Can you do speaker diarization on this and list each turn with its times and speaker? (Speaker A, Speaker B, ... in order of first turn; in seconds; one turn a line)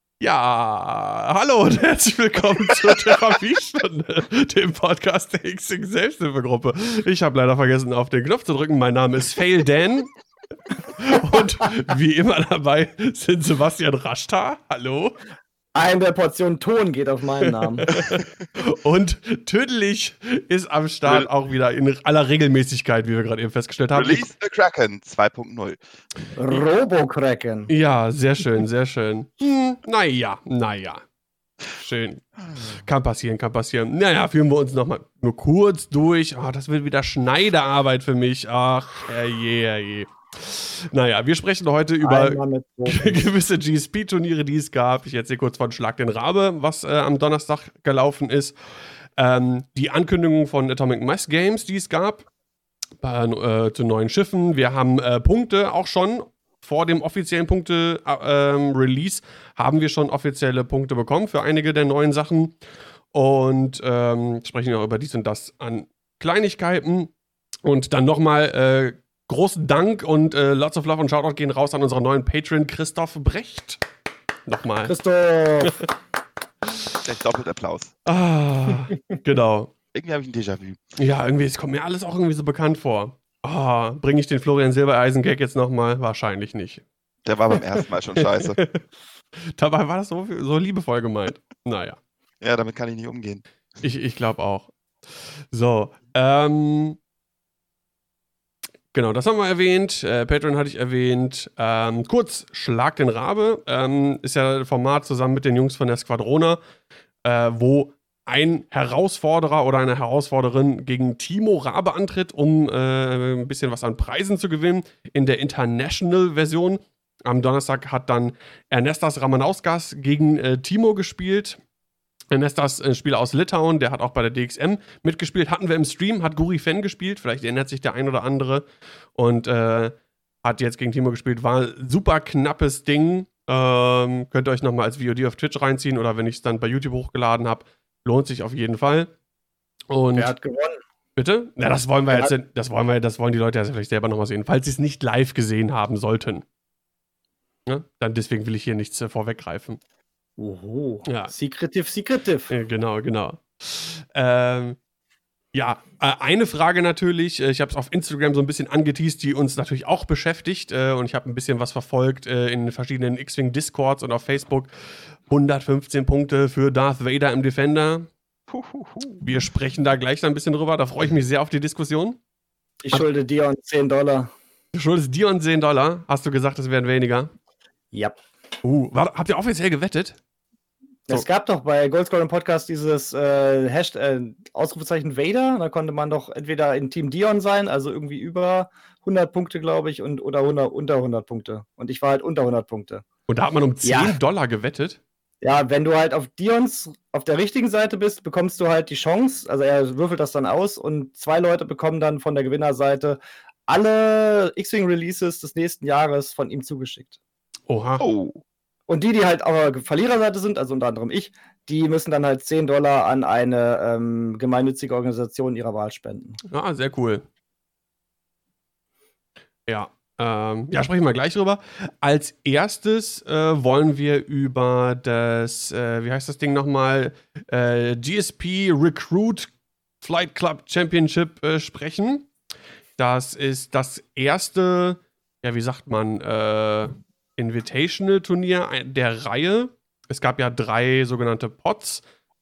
Speaker A: 0.2-10.1
Speaker A: 10.9-15.1
Speaker B: 15.7-17.9
Speaker A: 17.4-24.2
Speaker C: 23.9-25.8
Speaker B: 26.4-27.7
Speaker A: 27.7-31.0
Speaker A: 31.7-48.5
Speaker C: 32.5-32.8
Speaker B: 42.0-43.2
Speaker A: 49.2-52.3
Speaker A: 53.0-62.6
Speaker A: 63.1-67.1
Speaker A: 67.6-73.8
Speaker A: 74.5-74.9
Speaker B: 74.9-75.9
Speaker A: 75.6-75.9
Speaker C: 77.0-77.9
Speaker A: 78.0-79.7
Speaker C: 79.9-81.0
Speaker A: 81.0-86.8
Speaker C: 87.2-88.6
Speaker A: 88.2-88.8
Speaker A: 89.5-92.0
Speaker C: 92.4-93.4
Speaker A: 93.8-97.0
Speaker A: 98.9-106.6
Speaker A: 107.2-121.6
Speaker A: 122.3-139.1
Speaker A: 139.9-140.3
Speaker B: 140.1-140.8
Speaker A: 141.2-146.4
Speaker A: 147.7-149.8
Speaker B: 150.4-152.5
Speaker A: 151.1-151.3
Speaker A: 152.5-154.8
Speaker A: 155.5-164.7
Speaker A: 165.3-168.1
Speaker C: 168.5-169.2
Speaker A: 169.2-172.2
Speaker B: 172.8-174.3
Speaker A: 174.7-177.3
Speaker A: 178.6-180.2
Speaker B: 181.1-193.0
Speaker A: 193.3-195.0
Speaker B: 193.8-194.2
Speaker B: 195.4-207.2
Speaker A: 207.7-208.0
Speaker C: 208.0-208.4
Speaker B: 208.9-216.4
Speaker A: 216.5-217.2
Speaker A: 219.7-232.3
Speaker A: 233.0-242.0